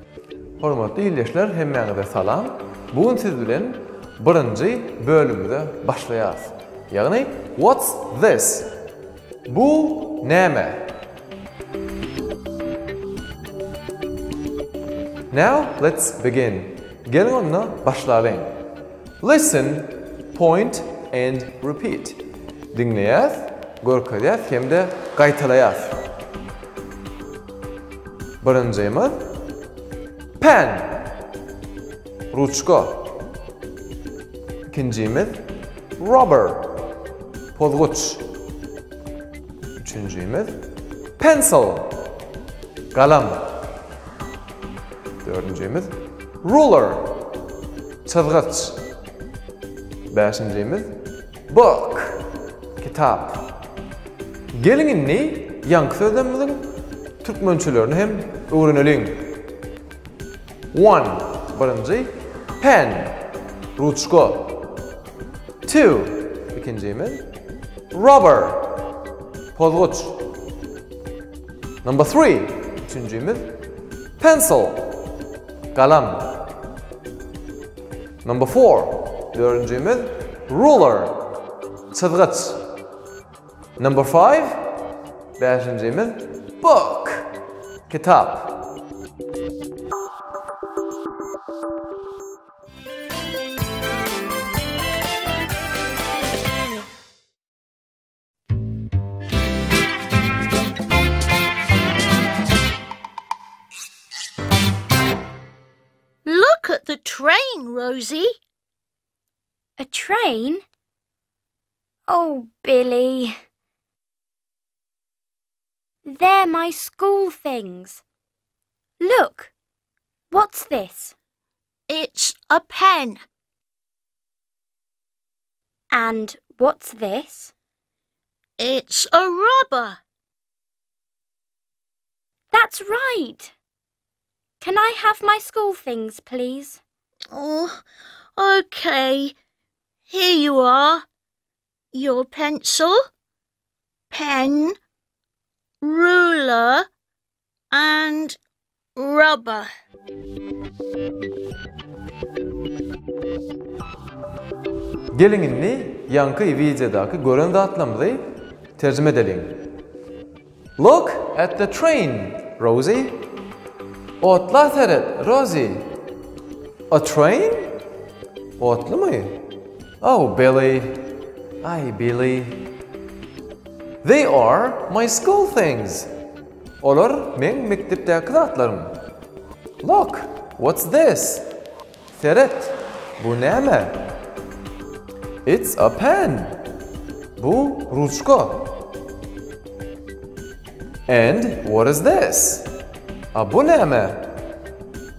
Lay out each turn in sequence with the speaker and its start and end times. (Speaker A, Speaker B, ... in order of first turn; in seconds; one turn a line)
Speaker A: 0.6-8.7
Speaker A: 9.5-10.9
Speaker A: 15.3-18.5
Speaker A: 19.2-22.2
Speaker A: 22.7-26.0
Speaker A: 28.4-29.4
Speaker A: 30.4-31.1
Speaker A: 32.3-33.2
Speaker A: 34.7-36.9
Speaker A: 37.6-38.3
Speaker A: 39.8-40.6
Speaker A: 41.2-42.1
Speaker A: 42.9-43.7
Speaker A: 45.2-47.3
Speaker A: 48.0-48.8
Speaker A: 50.1-53.6
Speaker A: 54.5-56.7
Speaker A: 57.2-59.4
Speaker A: 60.7-63.2
Speaker A: 63.8-64.8
Speaker A: 65.7-67.3
Speaker A: 67.9-68.8
Speaker A: 69.5-70.3
Speaker A: 71.8-73.6
Speaker A: 74.2-75.1
Speaker A: 75.7-76.5
Speaker A: 78.2-81.3
Speaker A: 81.9-82.7
Speaker A: 83.8-84.8
Speaker A: 85.4-88.7
Speaker B: 106.2-108.4
Speaker C: 109.8-110.6
Speaker C: 112.1-113.4
Speaker C: 116.0-118.0
Speaker C: 119.0-119.5
Speaker C: 120.3-121.2
Speaker B: 121.9-123.2
Speaker C: 125.9-127.5
Speaker B: 128.6-130.0
Speaker C: 132.5-133.5
Speaker C: 134.6-136.8
Speaker B: 137.3-137.8
Speaker B: 138.4-139.3
Speaker B: 140.1-141.1
Speaker B: 141.9-143.0
Speaker B: 144.1-144.8
Speaker B: 145.8-146.9
Speaker B: 147.7-148.4
Speaker B: 149.0-149.7
Speaker A: 155.1-158.2
Speaker A: 158.8-159.6
Speaker A: 160.8-163.2
Speaker A: 164.2-165.9
Speaker A: 166.9-167.8
Speaker A: 168.6-169.4
Speaker A: 170.0-171.1
Speaker A: 171.6-172.7
Speaker A: 174.0-176.1
Speaker A: 176.8-179.0
Speaker A: 179.8-181.5
Speaker A: 182.1-184.1
Speaker A: 185.5-186.6
Speaker A: 187.4-188.9
Speaker A: 191.1-192.7
Speaker A: 193.3-194.3